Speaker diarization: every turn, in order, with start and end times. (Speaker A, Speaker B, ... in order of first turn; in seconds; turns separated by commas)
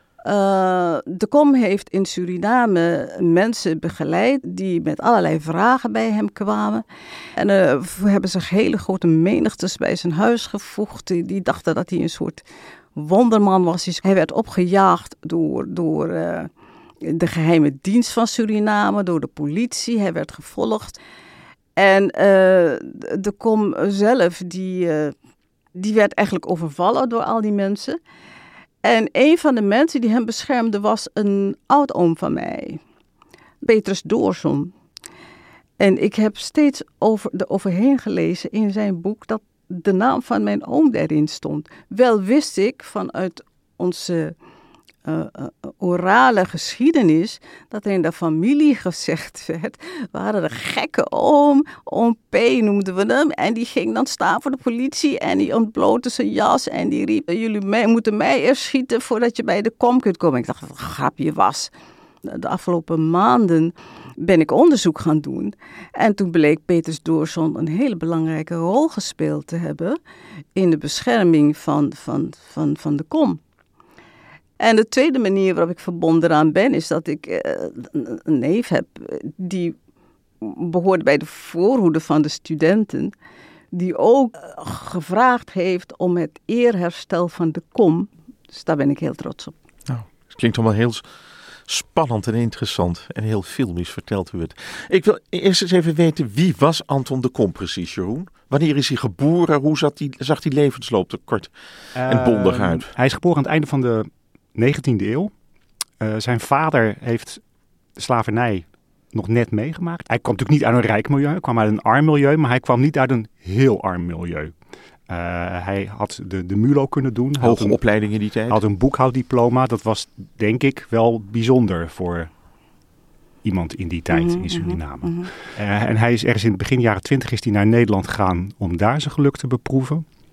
Speaker A: 0.2-6.8, Speaker A: 7.4-12.4, Speaker A: 13.0-16.5, Speaker A: 17.0-21.0, Speaker A: 21.8-25.1, Speaker A: 25.8-28.0, Speaker A: 28.8-32.8, Speaker A: 33.6-34.7, Speaker A: 35.8-44.4, Speaker A: 45.0-61.7, Speaker A: 62.2-70.0, Speaker A: 70.6-73.4, Speaker A: 74.6-79.8, Speaker A: 80.4-83.1, Speaker A: 83.7-89.5, Speaker B: 89.9-91.0, Speaker B: 91.7-101.5, Speaker C: 102.0-105.3, Speaker B: 102.0-102.9, Speaker C: 106.0-107.4, Speaker C: 108.0-114.5, Speaker C: 115.1-117.8, Speaker B: 117.4-118.6, Speaker C: 118.5-122.3, Speaker C: 123.4-130.1, Speaker A: 124.1-125.3